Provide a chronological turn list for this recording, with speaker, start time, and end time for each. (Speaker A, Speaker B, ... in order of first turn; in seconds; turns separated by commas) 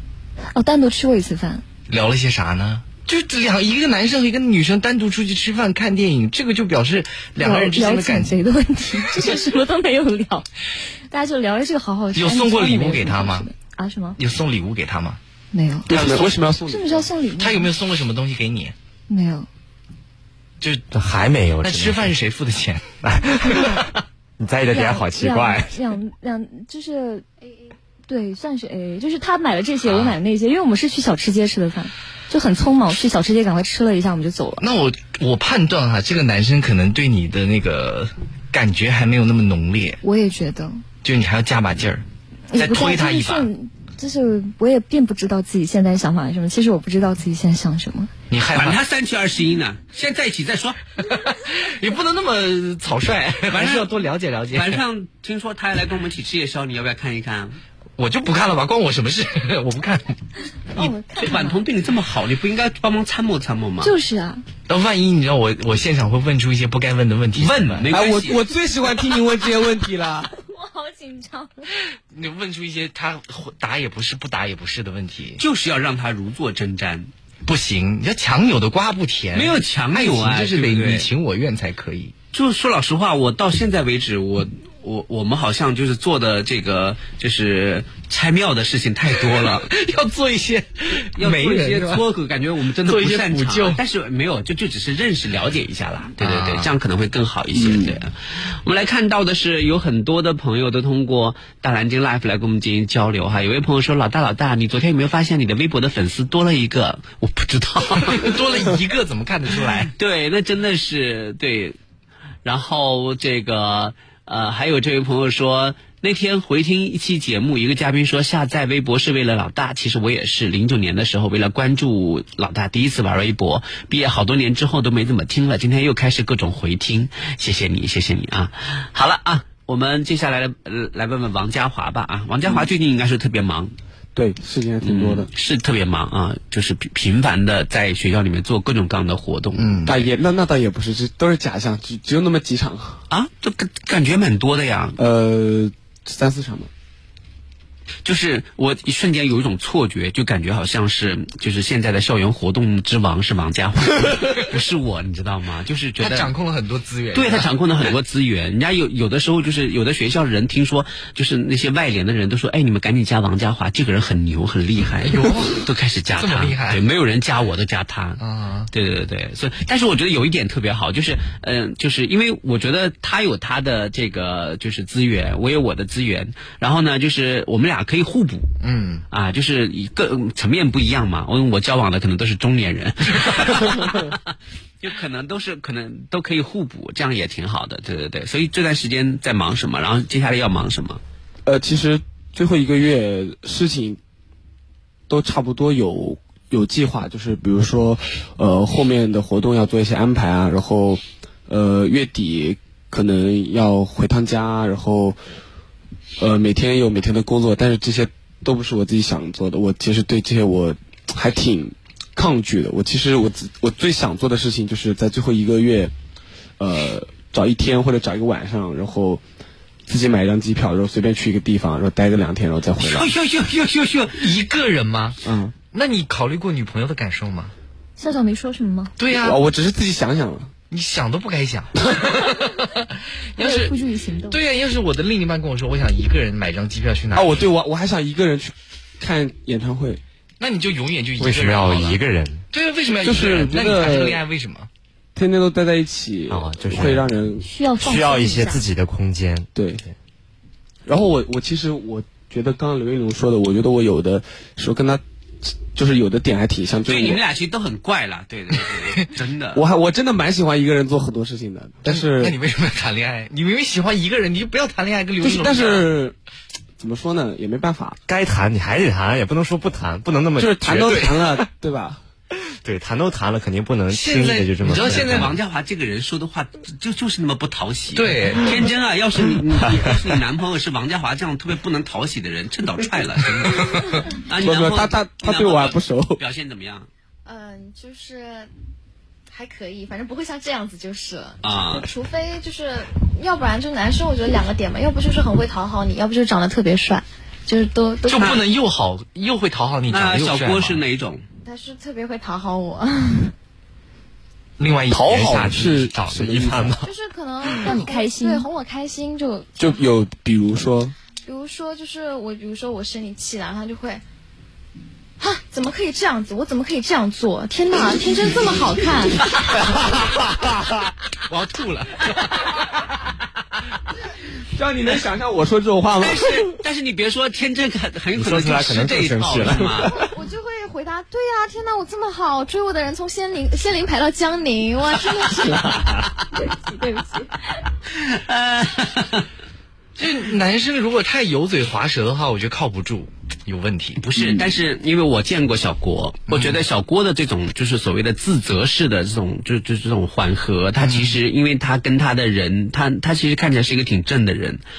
Speaker A: 0.5-1.6, Speaker B: 1.9-8.3, Speaker A: 7.4-10.5, Speaker A: 11.1-14.2, Speaker B: 12.1-13.5, Speaker B: 14.2-15.2, Speaker A: 15.5-17.7, Speaker C: 15.9-17.1, Speaker B: 15.9-16.2, Speaker B: 17.4-18.7, Speaker A: 19.1-19.5, Speaker B: 20.6-20.9, Speaker D: 20.9-22.1, Speaker B: 21.6-22.9, Speaker D: 23.0-23.8, Speaker B: 23.5-23.8, Speaker D: 24.4-25.8, Speaker A: 24.7-27.2, Speaker A: 28.1-34.6, Speaker B: 29.9-30.2, Speaker B: 34.6-40.0, Speaker A: 40.0-40.8, Speaker B: 41.0-42.0, Speaker A: 42.5-48.1, Speaker B: 42.5-43.5, Speaker B: 48.3-48.8, Speaker E: 48.5-50.8, Speaker B: 51.0-54.8, Speaker E: 53.5-54.0, Speaker E: 54.5-57.6, Speaker B: 58.0-60.1, Speaker A: 60.7-61.6, Speaker E: 60.8-63.9, Speaker A: 63.8-64.4, Speaker B: 64.7-67.9, Speaker E: 67.3-68.4, Speaker C: 67.9-70.3, Speaker A: 70.3-71.7, Speaker B: 72.1-75.4, Speaker E: 75.4-77.1, Speaker B: 77.4-82.1, Speaker E: 79.3-81.1, Speaker E: 82.3-89.7, Speaker B: 89.1-92.0, Speaker E: 91.2-108.4, Speaker B: 92.8-93.8, Speaker B: 96.2-96.7, Speaker C: 97.5-98.0, Speaker B: 108.0-109.9, Speaker E: 109.9-111.8, Speaker E: 112.4-133.7, Speaker C: 134.1-135.3, Speaker E: 134.8-139.8, Speaker B: 139.6-140.0, Speaker C: 139.8-143.0, Speaker E: 143.1-145.0, Speaker C: 145.0-146.7, Speaker E: 148.0-156.3, Speaker B: 156.0-157.5, Speaker E: 157.1-168.2, Speaker B: 165.0-166.8, Speaker B: 168.2-168.7, Speaker E: 168.7-178.5, Speaker B: 178.6-179.0, Speaker E: 179.1-184.2, Speaker E: 184.8-191.0, Speaker C: 191.4-194.0, Speaker C: 195.1-205.2, Speaker C: 206.2-215.9, Speaker C: 216.6-219.2, Speaker C: 219.8-223.1, Speaker B: 223.0-227.5, Speaker E: 223.3-224.0, Speaker C: 225.2-225.5, Speaker A: 228.0-228.9, Speaker B: 229.0-229.4, Speaker C: 229.1-230.5, Speaker B: 230.7-233.8, Speaker A: 233.4-234.4, Speaker B: 234.3-237.4, Speaker C: 237.1-240.0, Speaker B: 240.4-244.7, Speaker D: 241.2-242.4, Speaker C: 243.0-244.2, Speaker C: 245.1-247.4, Speaker D: 246.3-247.1, Speaker A: 247.4-248.6, Speaker D: 247.8-249.5, Speaker C: 249.5-249.8, Speaker C: 250.8-257.2, Speaker E: 256.9-259.6, Speaker C: 259.5-262.4, Speaker B: 261.8-265.9, Speaker C: 265.2-266.1, Speaker C: 266.8-268.0, Speaker D: 268.1-271.1, Speaker C: 270.4-272.0, Speaker D: 272.6-275.4, Speaker B: 273.9-275.4, Speaker E: 274.6-286.9, Speaker B: 277.9-278.6, Speaker B: 283.4-283.9, Speaker C: 284.4-286.2, Speaker F: 287.2-288.5, Speaker F: 289.3-298.3, Speaker E: 291.4-291.8, Speaker B: 298.1-300.8, Speaker E: 298.1-298.4, Speaker E: 299.9-301.2, Speaker F: 301.4-303.3, Speaker B: 304.6-305.7, Speaker C: 304.9-306.7, Speaker D: 304.9-306.9, Speaker F: 306.8-309.5, Speaker A: 307.6-308.5, Speaker C: 309.6-310.9, Speaker F: 311.2-314.0, Speaker F: 315.2-319.2, Speaker B: 321.3-322.6, Speaker C: 324.5-326.4, Speaker E: 326.0-329.9, Speaker D: 328.1-330.0, Speaker F: 329.8-335.7, Speaker E: 335.4-336.1, Speaker A: 336.5-337.3, Speaker E: 337.9-339.2, Speaker B: 340.0-344.0, Speaker E: 344.0-354.6, Speaker C: 344.2-344.4, Speaker B: 346.3-346.6, Speaker B: 350.8-351.2